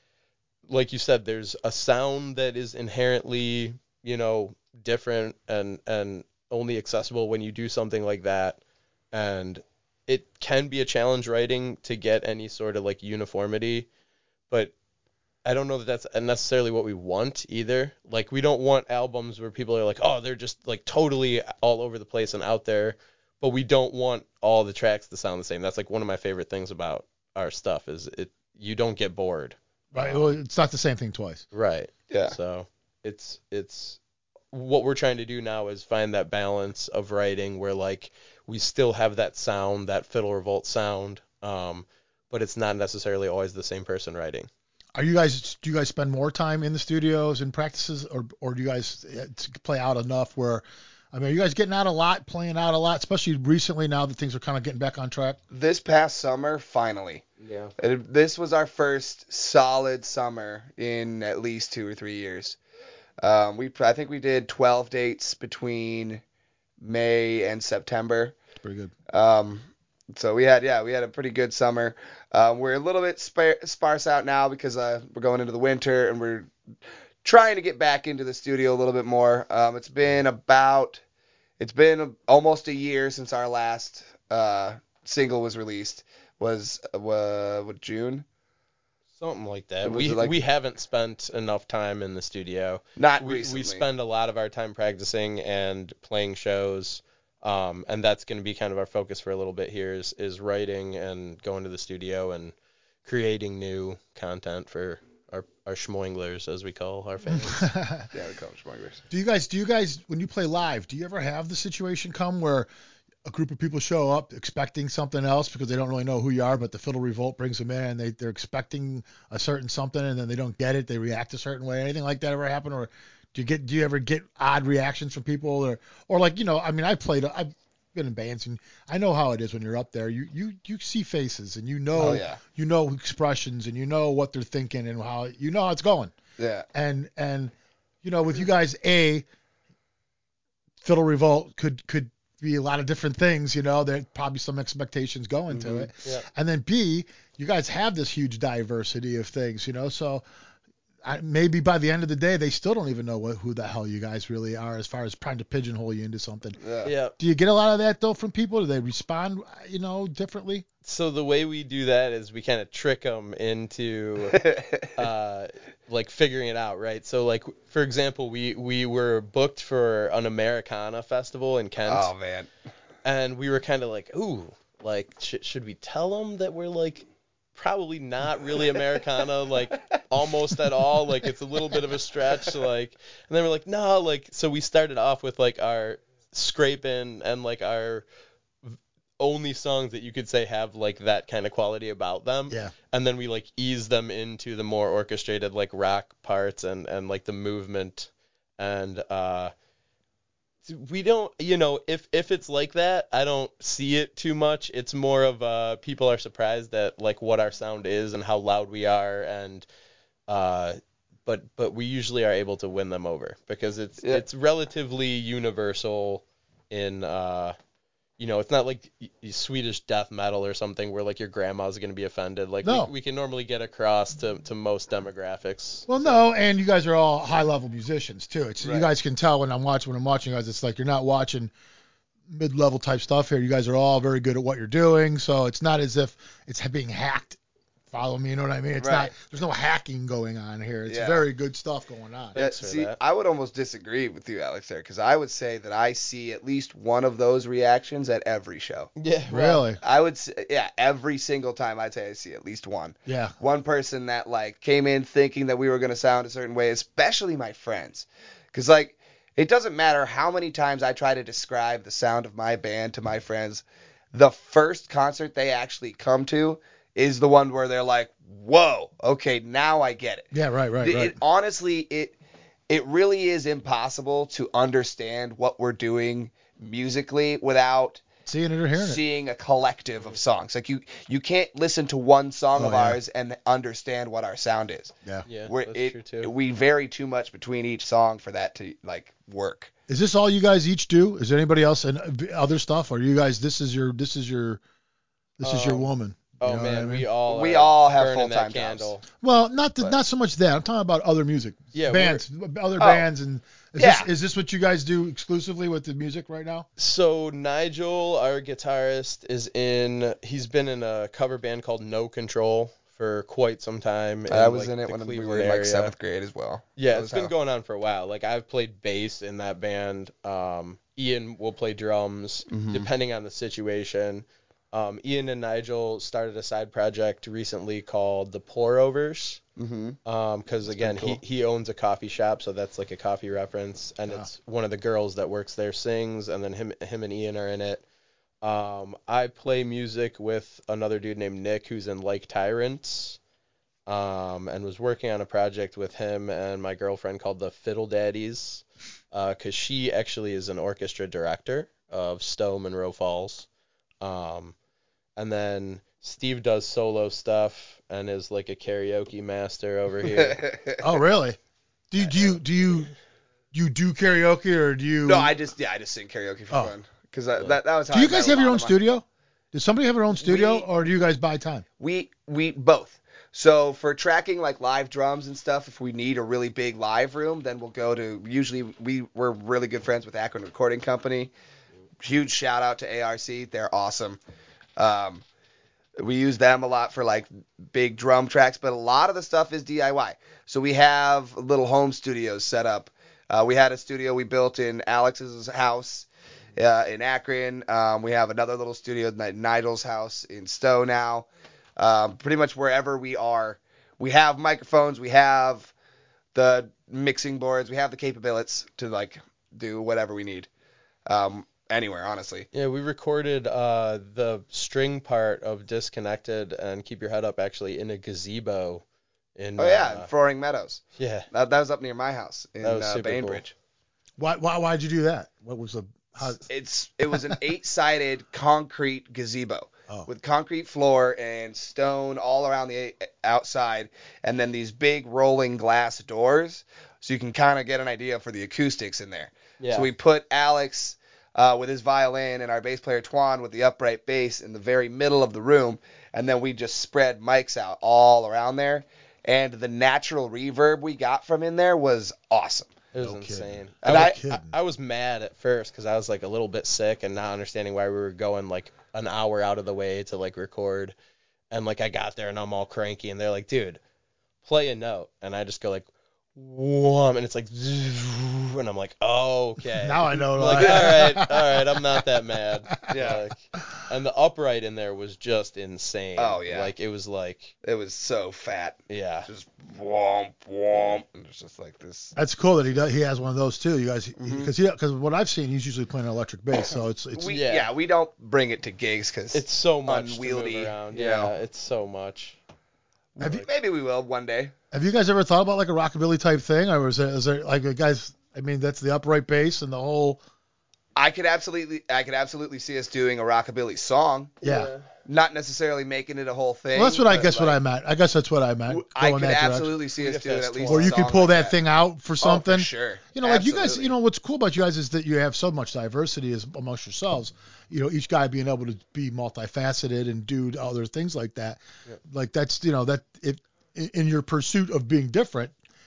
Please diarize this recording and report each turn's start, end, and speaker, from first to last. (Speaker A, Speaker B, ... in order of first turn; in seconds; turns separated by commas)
Speaker A: 0.7-8.6, Speaker A: 9.1-13.9, Speaker A: 15.4-30.3, Speaker B: 29.9-31.4, Speaker A: 31.5-34.0, Speaker C: 32.1-32.4, Speaker A: 34.5-44.5, Speaker B: 44.9-55.4, Speaker C: 55.5-57.2, Speaker A: 57.4-57.7, Speaker C: 57.8-62.6, Speaker C: 63.2-66.2, Speaker C: 66.8-68.3, Speaker B: 68.6-68.9, Speaker C: 69.1-76.5, Speaker C: 77.2-81.0, Speaker C: 81.6-88.2, Speaker A: 89.2-102.5, Speaker C: 89.8-90.4, Speaker C: 93.0-93.8, Speaker A: 103.0-107.7, Speaker B: 107.3-108.1, Speaker C: 108.1-109.0, Speaker B: 109.1-112.7, Speaker B: 113.2-136.1, Speaker C: 131.9-132.4, Speaker C: 136.4-136.7, Speaker B: 136.7-139.2, Speaker B: 140.8-150.2, Speaker C: 145.5-145.9, Speaker B: 151.0-156.6, Speaker C: 156.6-156.9, Speaker A: 156.8-157.1, Speaker B: 157.2-160.7, Speaker A: 160.8-172.1, Speaker C: 164.3-164.9, Speaker C: 171.8-172.5, Speaker A: 173.0-188.0, Speaker A: 188.6-199.5, Speaker A: 200.6-209.7, Speaker A: 210.3-217.5, Speaker A: 218.2-226.2, Speaker B: 222.6-222.9, Speaker B: 225.9-231.5, Speaker C: 228.6-228.9, Speaker B: 232.3-237.4, Speaker B: 237.9-242.4, Speaker C: 238.8-239.1, Speaker C: 240.9-241.2, Speaker A: 242.3-243.0, Speaker C: 242.3-248.9, Speaker A: 249.0-249.6, Speaker B: 249.3-249.8, Speaker C: 249.8-272.1, Speaker B: 253.1-253.3, Speaker B: 270.3-271.1, Speaker C: 272.7-278.0, Speaker B: 278.2-279.0, Speaker C: 278.7-284.9, Speaker B: 282.6-283.0, Speaker A: 285.2-286.3, Speaker C: 285.4-289.7, Speaker B: 289.9-294.6, Speaker B: 295.4-297.1, Speaker A: 295.4-295.9, Speaker A: 296.4-299.0, Speaker C: 297.3-298.9, Speaker B: 299.2-306.7, Speaker A: 301.7-302.2, Speaker C: 302.8-303.1, Speaker C: 303.8-304.1, Speaker A: 306.8-315.9, Speaker C: 314.3-317.3, Speaker A: 316.8-329.4, Speaker C: 322.5-322.9, Speaker C: 329.6-330.0, Speaker A: 330.1-337.8, Speaker C: 330.8-331.2, Speaker A: 338.4-343.2, Speaker A: 343.9-353.5, Speaker A: 354.0-354.5, Speaker A: 355.2-360.4, Speaker C: 360.0-360.9, Speaker B: 360.8-361.4, Speaker B: 361.9-362.9, Speaker B: 363.5-365.3, Speaker C: 365.0-368.8, Speaker B: 367.9-371.6, Speaker C: 370.2-370.7, Speaker C: 371.8-381.3, Speaker C: 382.0-384.2, Speaker C: 384.8-385.2, Speaker C: 386.0-405.7, Speaker C: 406.3-410.5, Speaker C: 411.1-412.5, Speaker A: 412.5-418.8, Speaker A: 419.4-420.1, Speaker C: 419.6-423.5, Speaker A: 421.0-421.3, Speaker A: 422.6-423.4, Speaker B: 424.2-426.5, Speaker C: 426.5-452.7, Speaker B: 427.1-427.4, Speaker A: 439.6-439.9, Speaker A: 452.9-460.9, Speaker B: 453.0-454.5, Speaker C: 453.8-454.2, Speaker A: 461.5-463.8, Speaker A: 464.4-477.5, Speaker B: 469.8-472.0, Speaker C: 470.5-470.9, Speaker B: 472.7-473.1, Speaker C: 472.9-473.2, Speaker C: 476.2-476.7, Speaker C: 477.6-482.1, Speaker A: 478.9-479.3, Speaker B: 482.1-487.3, Speaker C: 484.2-484.5, Speaker C: 487.1-491.3, Speaker A: 487.3-487.7, Speaker A: 489.3-492.4, Speaker B: 493.2-493.4, Speaker C: 493.2-494.5, Speaker B: 494.7-500.2, Speaker C: 500.9-504.4, Speaker A: 504.4-504.8, Speaker B: 504.4-504.7, Speaker C: 505.0-507.6, Speaker B: 506.7-509.7, Speaker C: 508.7-511.6, Speaker A: 510.0-510.9, Speaker B: 510.7-525.5, Speaker C: 512.2-513.9